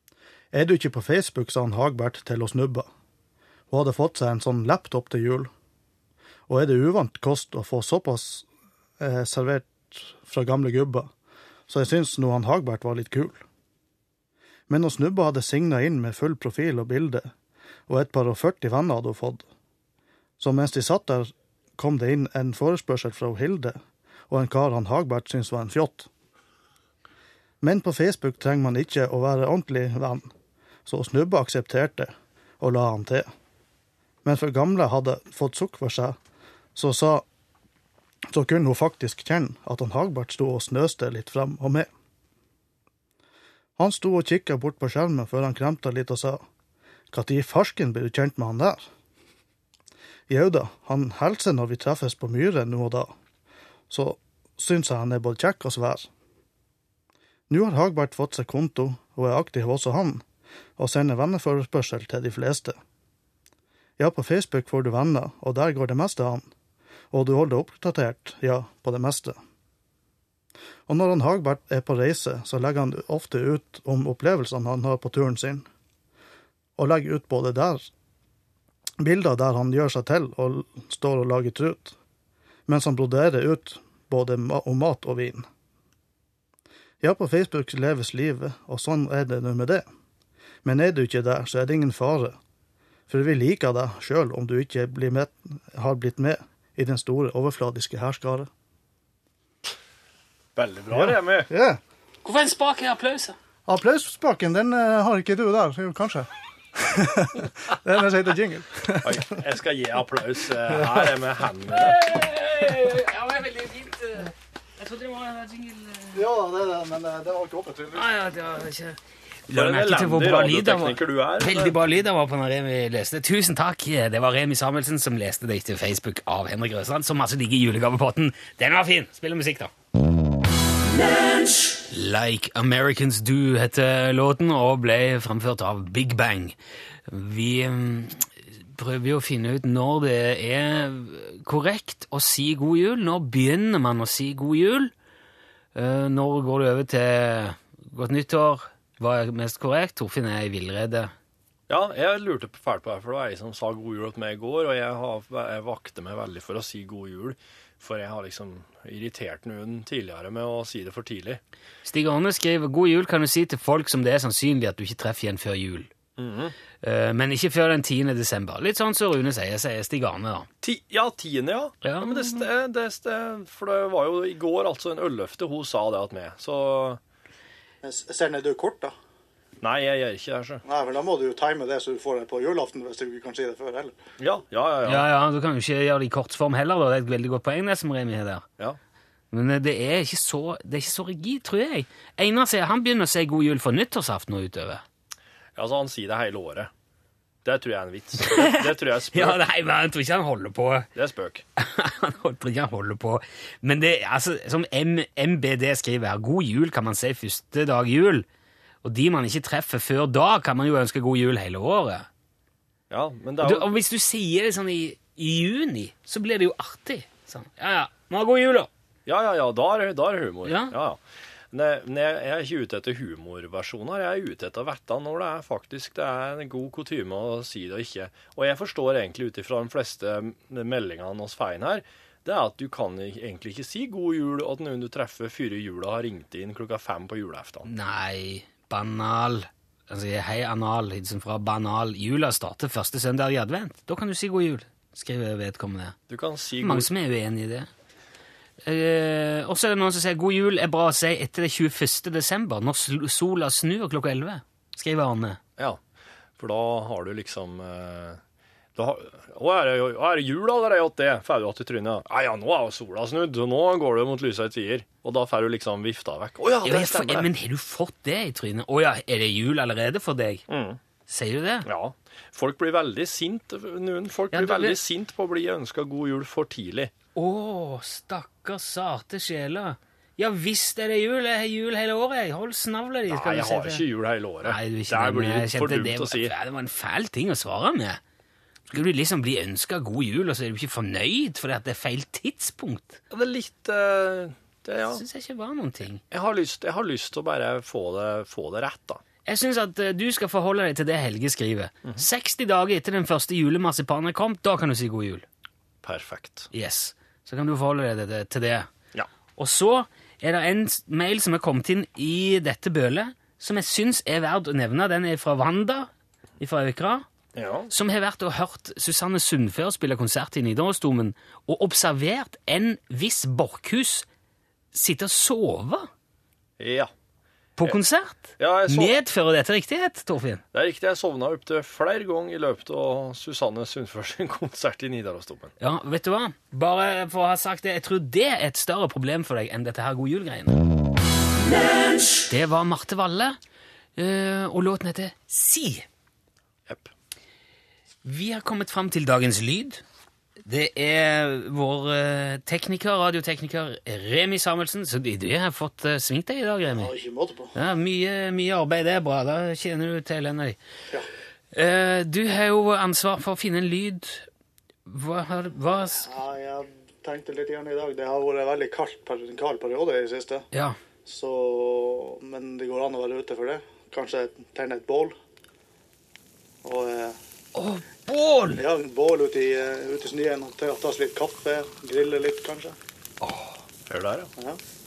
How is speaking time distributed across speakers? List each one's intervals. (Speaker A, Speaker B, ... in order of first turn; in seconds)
Speaker A: 0.5-2.9, 3.7-5.5, 6.5-8.5, 9.0-11.1, 11.7-13.4, 14.7-17.3, 17.9-19.5, 20.4-26.1, 27.6-30.3, 30.9-33.3, 34.2-36.2, 36.8-37.2, 38.3-41.9, 43.8-46.4, 47.1-48.9, 50.3-53.1, 53.9-56.1, 57.5-60.2, 60.8-62.8, 64.0-66.5, 67.1-69.4, 70.9-75.7, 76.8-77.9, 79.0-82.0, 82.7-85.5, 87.0-89.8, 90.6-92.4, 93.1-98.5, 100.9-101.8, 103.7-109.3, 110.7-111.2, 116.1-118.1, 177.8-178.9, 180.7-184.0, 356.7-357.5, 365.9-370.5, 371.1-375.1, 376.6-377.2, 378.6-382.8
Speaker B: 100.6-101.5, 109.0-112.0, 119.5-121.8, 151.7-161.4, 166.2-166.6, 170.6-177.0, 179.6-180.6, 184.2-185.1, 195.6-196.7, 197.4-199.4, 200.9-201.4, 212.9-213.7, 219.1-221.0, 221.5-237.7, 246.1-246.9, 256.4-258.2, 258.8-267.3, 270.5-270.8, 271.7-276.9, 283.1-286.3, 293.1-295.0, 296.1-299.0, 305.8-306.5, 317.4-317.7, 326.6-326.9, 328.4-329.0, 330.5-335.5, 383.9-384.3
Speaker C: 102.2-103.4, 111.7-116.2, 117.9-129.7, 131.9-136.6, 137.1-144.9, 145.8-151.1, 161.8-165.9, 166.8-170.5, 171.8-172.5, 184.9-188.4, 189.3-194.8, 198.2-200.9, 201.6-208.3, 208.8-212.1, 213.4-218.7, 220.5-220.8, 237.7-246.0, 246.6-247.7, 248.6-255.4, 266.6-270.4, 271.1-271.7, 274.3-274.8, 277.1-283.8, 284.4-288.0, 288.7-293.0, 294.9-296.0, 299.3-305.2, 306.5-308.7, 309.4-315.9, 316.4-317.1, 317.7-324.1, 324.7-325.9, 327.6-330.4, 335.6-340.6, 342.3-343.4, 344.0-345.9, 348.1-349.8, 350.5-356.9, 357.6-360.6, 361.5-364.3, 364.9-366.1, 370.5-370.8, 377.6-378.6, 383.2-383.6